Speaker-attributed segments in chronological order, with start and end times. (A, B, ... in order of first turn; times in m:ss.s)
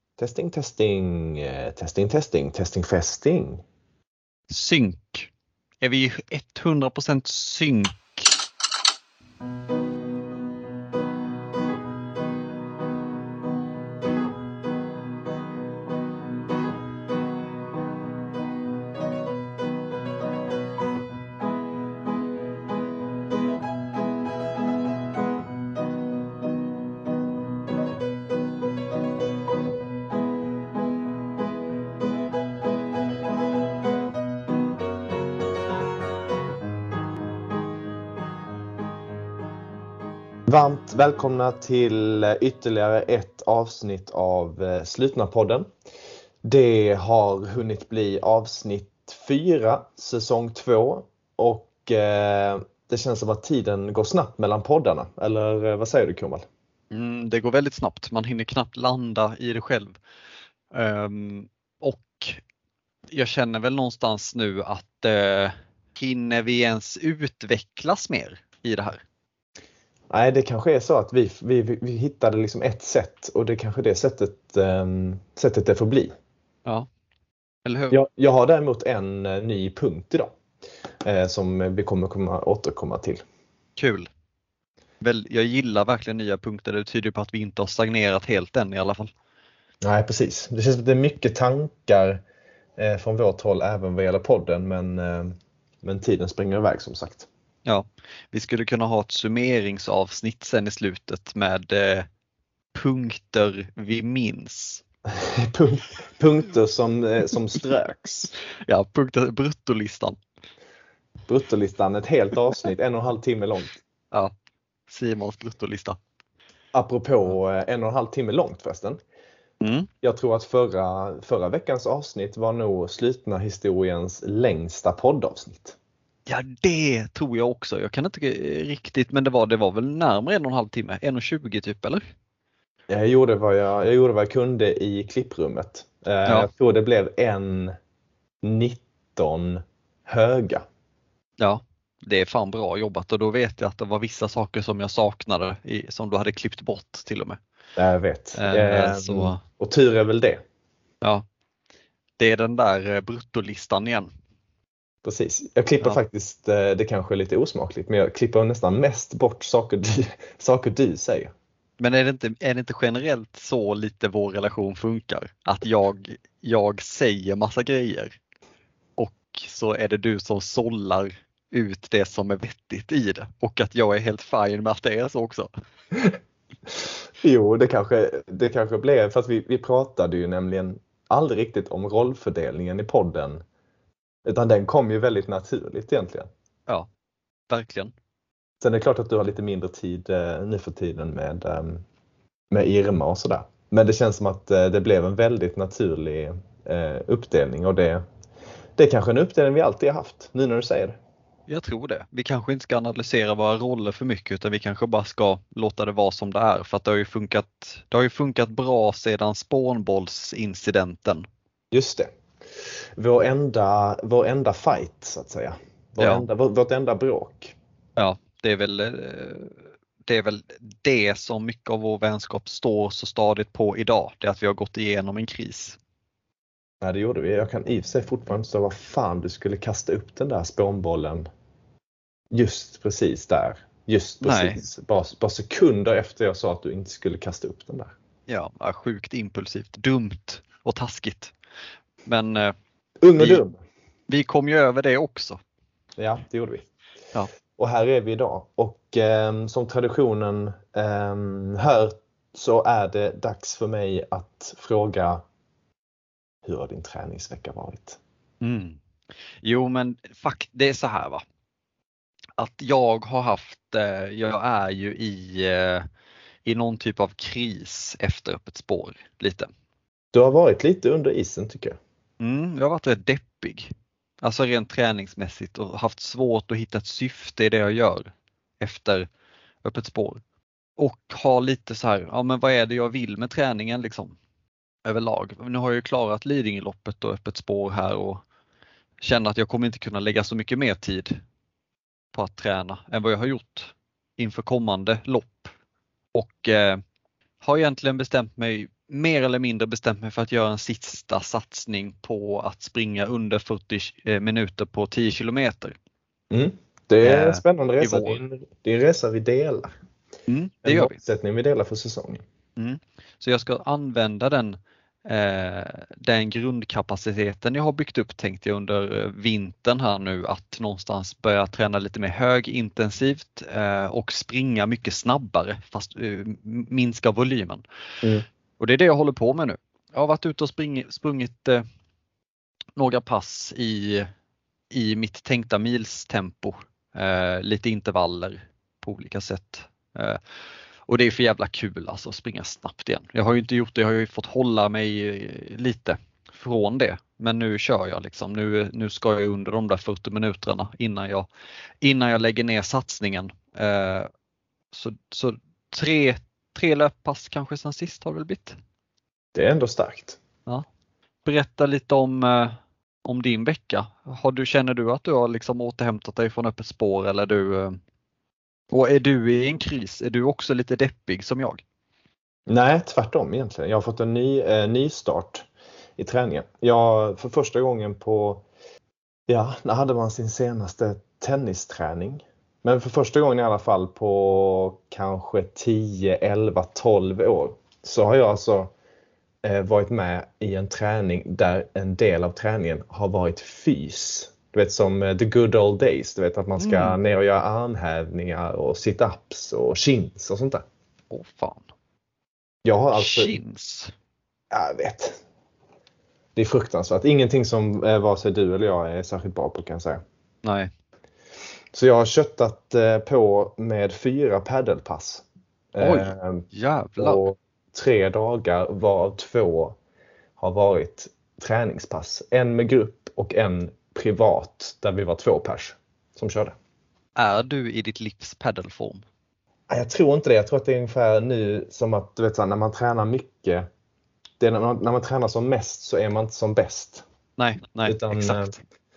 0:00.2-0:03.6 A
0:04.5-0:05.3 B
0:05.8-0:08.3 B
0:40.5-0:45.7 A
0:46.4-0:56.5 A
0:56.9-1:00.0 B
1:00.7-1:02.4 B
1:03.1-1:09.0 B
1:10.1-1:16.1 A
1:17.6-1:18.0 B
1:17.9-1:20.3 A
1:21.0-1:23.2 A
1:23.8-1:24.1 B
1:25.0-1:29.1 B
1:29.8-1:32.2 A
1:32.8-1:37.3 A
1:37.7-1:42.1 B
1:42.7-1:44.8 B
1:45.2-1:48.3 A
1:48.7-1:50.2 B
1:51.3-1:53.8 A
1:54.9-1:56.0 B
1:56.7-1:59.0 A
1:59.6-1:59.9 B
2:00.0-2:05.8 A
2:06.3-2:12.0 B
2:12.9-2:17.8 A
2:18.4-2:20.6 A
2:21.4-2:27.4 B
2:27.8-2:30.4 A
2:28.4-2:29.4 B
2:32.2-2:34.1 B
2:35.0-2:41.3 A
2:41.8-2:48.1 B
2:49.0-2:55.5 B
2:57.2-3:03.4 A
3:04.2-3:06.3 A
3:07.5-3:07.9 B
3:08.6-3:11.8 A
3:12.5-3:18.0 A
3:18.8-3:21.0 A
3:21.5-3:31.3 B
3:31.7-3:32.1 A
3:33.0-3:37.6 A
3:36.0-3:36.3 B
3:38.0-3:45.8 B
3:46.8-3:51.3 A
3:52.3-3:57.9 A
3:54.2-3:54.6 B
3:58.3-4:01.3 B
4:02.1-4:02.5 B
4:03.0-4:03.6 A
4:03.2-4:03.4 B
4:04.1-4:05.4 B
4:06.0-4:06.7 A
4:07.6-4:15.2 A
4:16.4-4:18.0 A
4:18.4-4:18.8 B
4:19.4-4:21.2 B
4:22.4-4:25.9 B
4:26.5-4:29.5 B
4:30.1-4:31.8 A
4:32.2-4:39.1 B
4:39.6-4:40.2 B
4:40.8-4:44.2 B
4:44.8-4:48.2 B
4:49.0-4:51.2 B
4:52.1-4:55.5 B
4:56.1-4:56.8 B
4:57.4-5:05.8 B
5:06.3-5:09.7 A
5:07.0-5:08.2 B
5:10.3-5:11.0 B
5:10.6-5:12.2 A
5:12.6-5:27.6 B
5:28.6-5:31.6 B
5:32.8-5:34.1 B
5:34.7-5:40.2 B
5:40.9-5:51.3 B
5:51.8-5:54.1 B
5:54.7-5:58.6 B
5:59.4-6:00.2 A
6:01.2-6:07.8 B
6:08.7-6:11.6 B
6:12.5-6:15.5 A
6:16.0-6:18.4 A
6:19.3-6:28.7 A
6:29.4-6:40.6 A
6:36.6-6:37.0 B
6:41.1-6:41.7 B
6:42.6-6:43.4 A
6:42.9-6:43.9 B
6:44.5-6:45.2 A
6:46.4-6:50.0 A
6:50.4-6:50.7 B
6:51.7-6:56.4 A
6:55.8-6:57.2 B
6:57.0-6:59.8 A
7:00.4-7:06.6 A
7:07.2-7:09.0 B
7:09.7-7:13.7 A
7:14.4-7:17.0 A
7:17.4-7:18.6 B
7:17.8-7:18.6 A